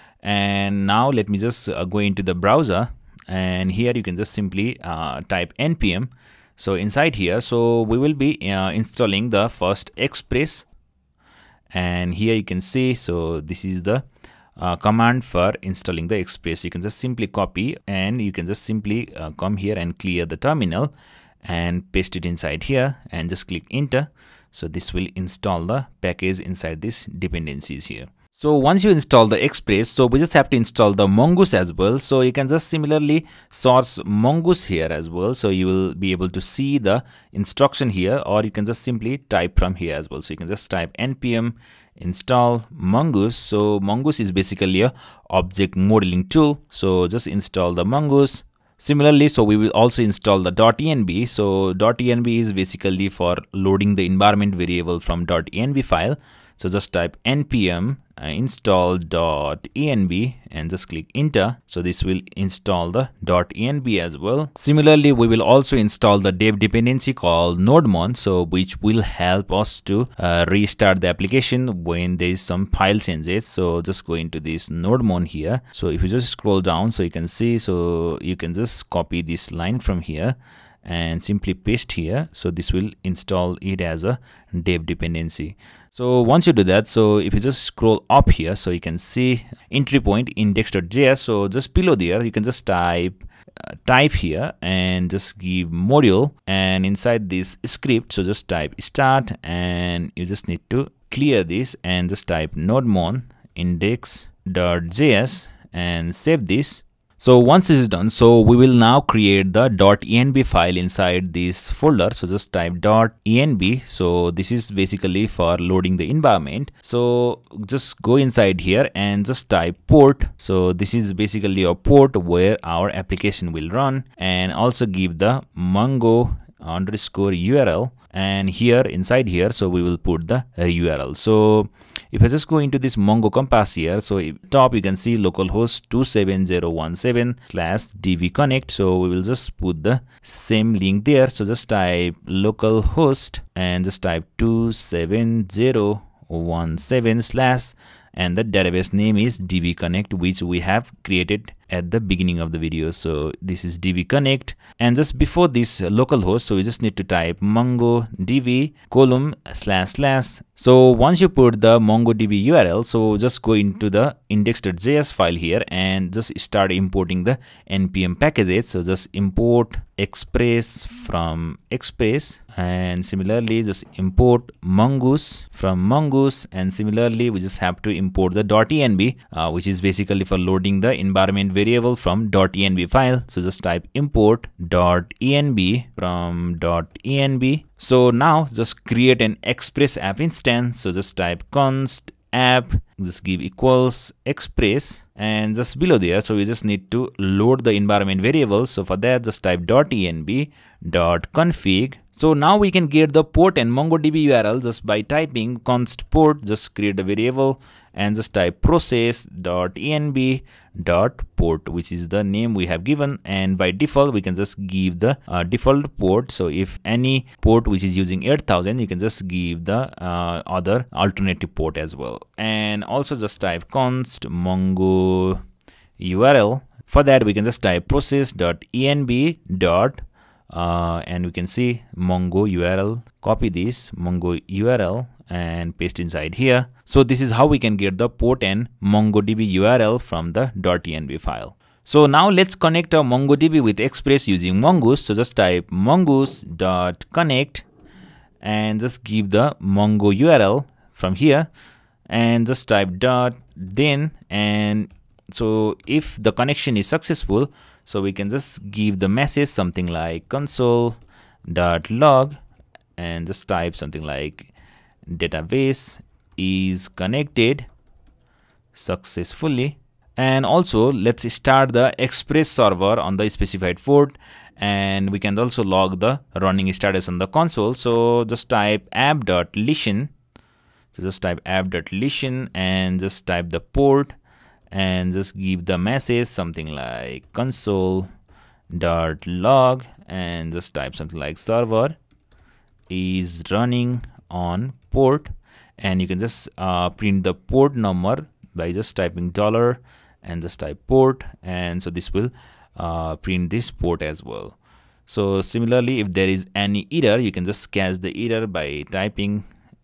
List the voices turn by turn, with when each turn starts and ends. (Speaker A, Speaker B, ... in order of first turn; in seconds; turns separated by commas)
Speaker A: 0.2-10.7, Speaker A: 11.7-14.0, Speaker A: 14.6-20.9, Speaker A: 21.4-225.4, Speaker A: 226.0-247.7, Speaker A: 248.4-251.5, Speaker A: 252.1-262.4, Speaker A: 263.0-264.5, Speaker A: 265.1-267.7, Speaker A: 268.8-280.1, Speaker A: 280.9-284.1, Speaker A: 284.7-288.1, Speaker A: 288.7-292.0, Speaker A: 292.9-309.4